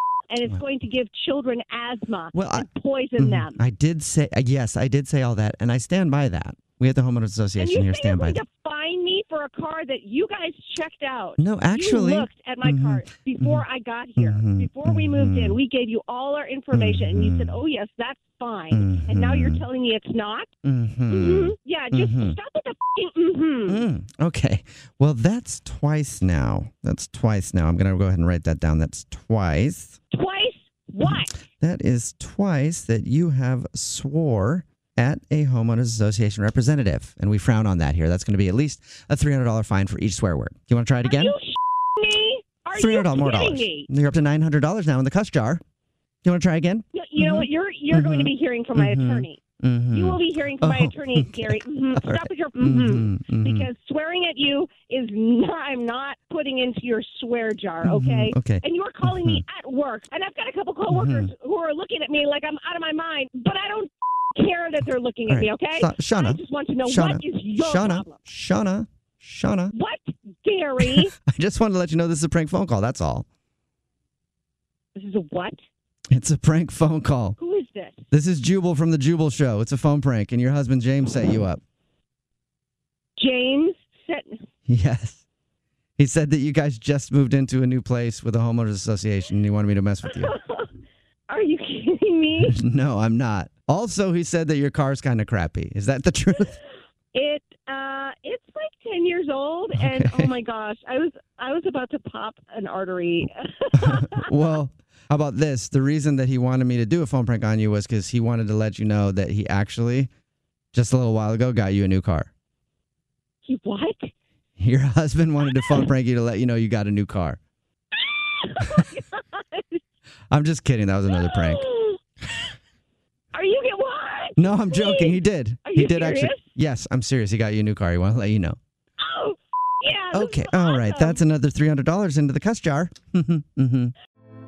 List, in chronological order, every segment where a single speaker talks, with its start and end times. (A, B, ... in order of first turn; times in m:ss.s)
0:00.3-0:03.6 A
0:02.3-0:02.7 B
0:03.2-0:08.4 B
0:07.6-0:20.5 A
0:11.4-0:13.6 B
0:14.2-0:15.6 B
0:16.7-0:17.6 B
0:18.7-0:19.6 B
0:20.6-0:22.4 B
0:21.1-0:23.8 A
0:23.7-0:30.0 B
0:30.1-0:31.3 A
0:31.0-0:41.3 B
0:41.0-0:43.9 A
0:42.8-0:45.6 B
0:46.2-0:53.7 B
0:47.0-0:49.4 A
0:50.0-1:08.2 A
0:57.8-0:59.4 B
1:00.9-1:01.3 B
1:05.3-1:09.7 B
1:09.7-1:11.1 A
1:10.8-1:13.3 B
1:15.0-1:15.6 A
1:16.1-1:17.4 B
1:17.4-1:18.0 A
1:18.1-1:21.6 B
1:23.2-1:24.5 A
1:24.7-1:25.2 B
1:26.0-1:30.4 B
1:30.4-1:30.7 A
1:31.3-1:32.6 A
1:32.4-1:36.6 B
1:37.1-1:44.0 A
1:39.8-1:40.4 B
1:43.8-1:50.1 B
1:50.7-1:52.3 B
1:53.4-1:54.1 A
1:54.6-1:57.4 B
1:58.0-1:59.8 A
2:00.3-2:01.6 B
2:01.6-2:02.0 A
2:03.3-2:06.4 A
2:04.4-2:08.6 B
2:09.0-2:11.2 A
2:10.1-2:13.9 B